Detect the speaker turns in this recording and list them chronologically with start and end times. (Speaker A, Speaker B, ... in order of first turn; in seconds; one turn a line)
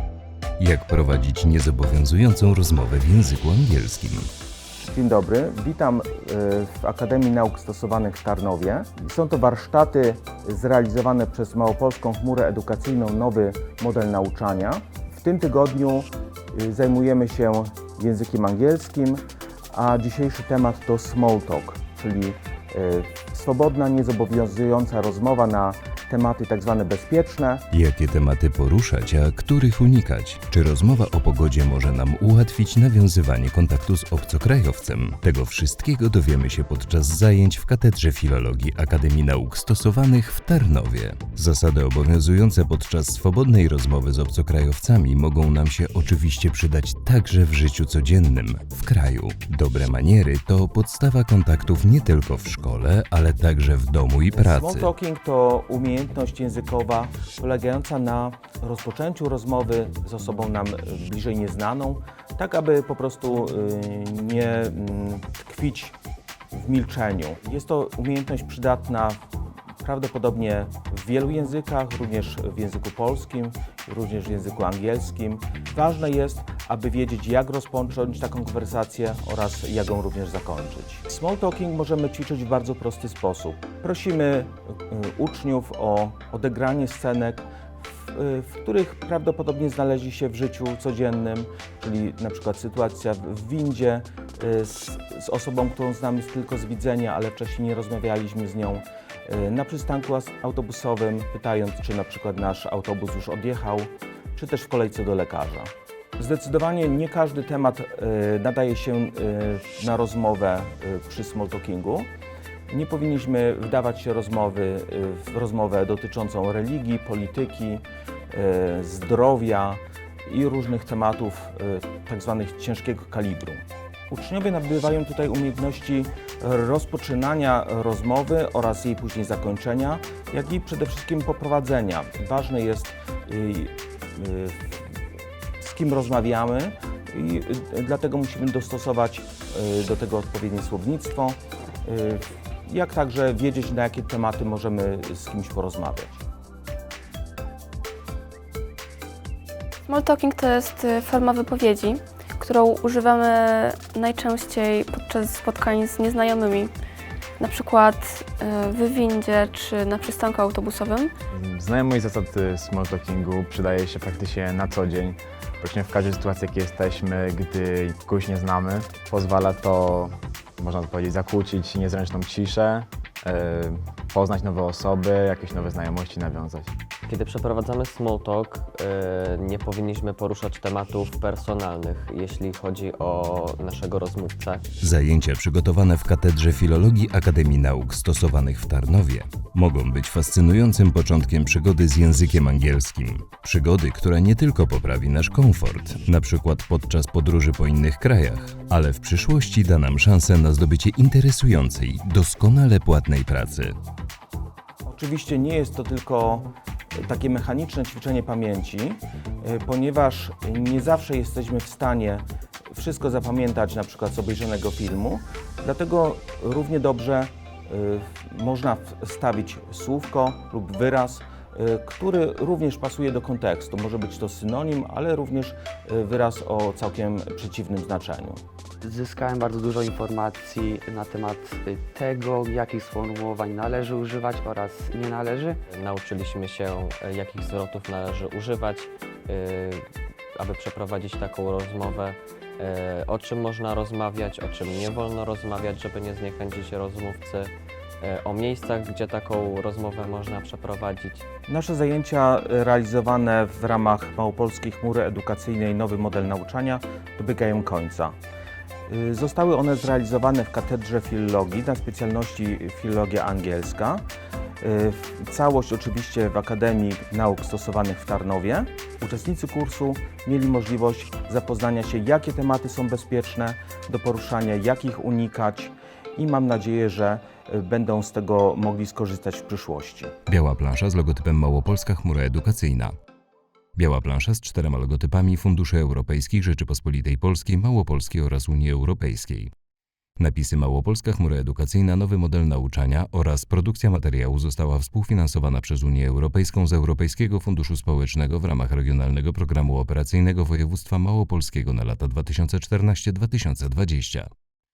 Speaker A: 0.6-4.3
Speaker B: 4.9-27.6
Speaker A: 27.7-54.9
Speaker B: 54.3-66.0
Speaker B: 66.5-69.2
Speaker B: 69.8-112.1
Speaker B: 112.7-134.7
Speaker B: 135.6-146.2
Speaker C: 149.9-156.7
Speaker C: 157.4-161.1
Speaker D: 161.3-176.7
Speaker E: 177.1-184.6
Speaker A: 184.8-203.7
Speaker B: 204.9-228.4
Speaker F: 228.8-235.6
Speaker E: 235.7-239.8
Speaker E: 240.3-251.2
Speaker B: 251.5-258.1
Speaker B: 258.9-264.0
Speaker B: 264.6-280.1
Speaker A: 280.3-282.9
Speaker A: 283.8-289.5
Speaker A: 290.2-304.3